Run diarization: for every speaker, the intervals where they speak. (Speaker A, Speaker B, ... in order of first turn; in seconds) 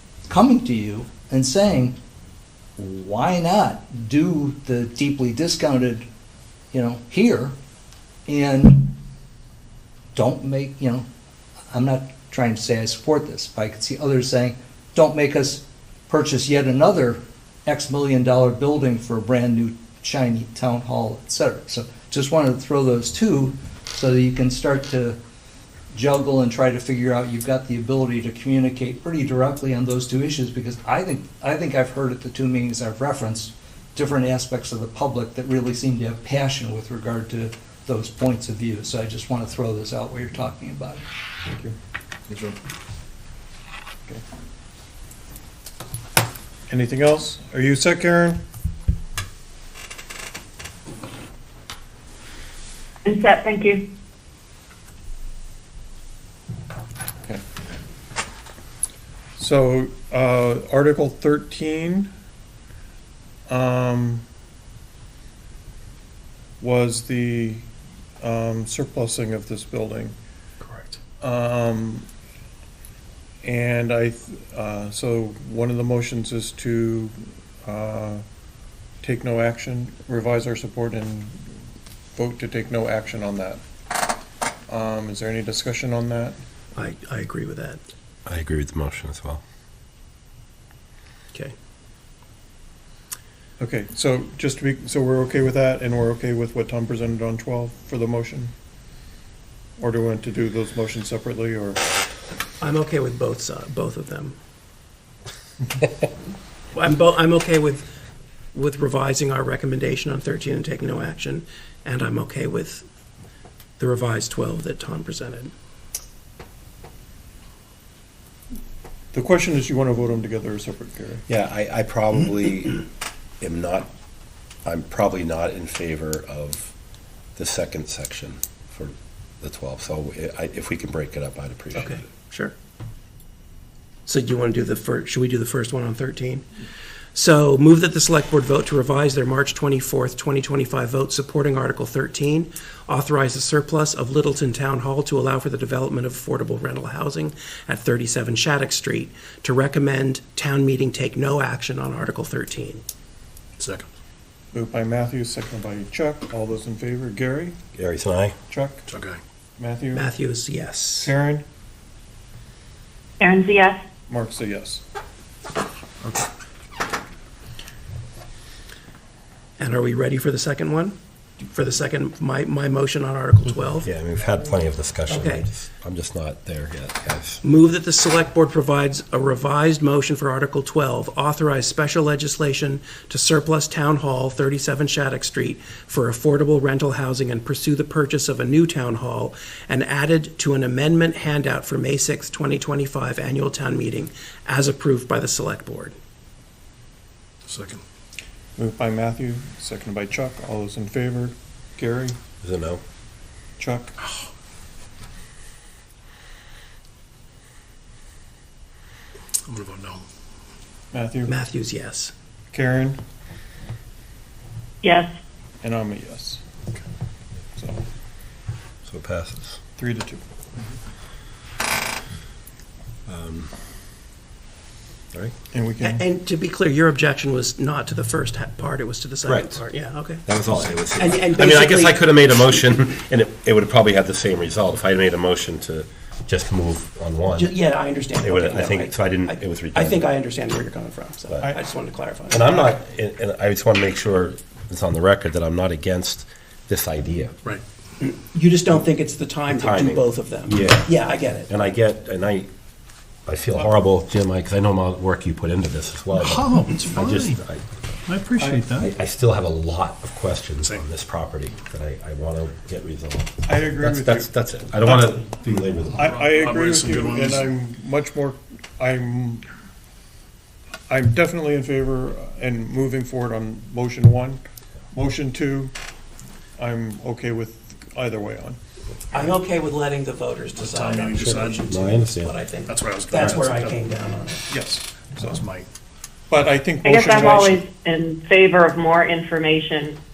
Speaker A: 0.3-2.0, 2.8-6.0, 6.7-7.5, 8.3-8.9, 10.1-11.1, 11.7-25.2, 25.9-41.0
Speaker B: 41.5-41.8, 46.7-48.4, 59.4-62.1, 63.5-64.2, 66.6-67.7, 68.2-70.2, 71.2-72.1, 73.4-78.2, 79.0-81.5, 82.1-83.6, 84.7-86.4, 93.6-98.5, 99.8-101.8, 119.1-121.2, 154.5-157.6, 158.5-158.8, 159.6-160.1, 161.0-161.4, 164.1-164.8, 166.0-166.3, 198.6-202.2, 203.6-203.9, 210.9-211.3, 212.5-213.0, 215.6-216.4, 217.6-217.8, 219.8-220.2, 225.5-226.0, 258.4-258.7, 263.4-264.3, 264.8-265.3, 265.9-269.4, 270.9-275.7, 276.6-278.6, 284.5-285.4, 286.3-287.7
Speaker C: 53.0-53.9, 163.2-163.8, 214.8-215.1, 286.8-290.0
Speaker D: 70.6-71.0, 153.6-153.9, 158.9-159.2, 197.5-197.8, 209.5-210.0, 256.2-257.4, 258.1-258.9, 266.0-267.5, 280.6-281.7, 282.6-283.8, 285.2-285.7
Speaker E: 86.7-87.8, 102.6-104.4, 106.7-107.9, 108.5-112.9, 113.8-115.5, 131.8-132.5, 134.1-136.5, 137.2-152.8, 159.9-161.1, 169.6-173.9, 175.1-175.5, 177.4-196.0, 211.2-212.1, 225.8-232.5, 237.3-242.7, 248.0-251.5, 279.1-284.5
Speaker F: 88.2-89.4, 121.3-122.9, 123.4-123.9, 124.7-126.7, 127.3-132.1, 157.8-158.3, 173.8-177.4, 202.4-202.8, 218.8-219.6, 223.1-223.5, 229.2-229.6, 230.2-237.6, 238.2-240.1, 242.3-247.4, 249.5-252.5, 253.2-257.7, 258.6-266.1, 281.6-282.4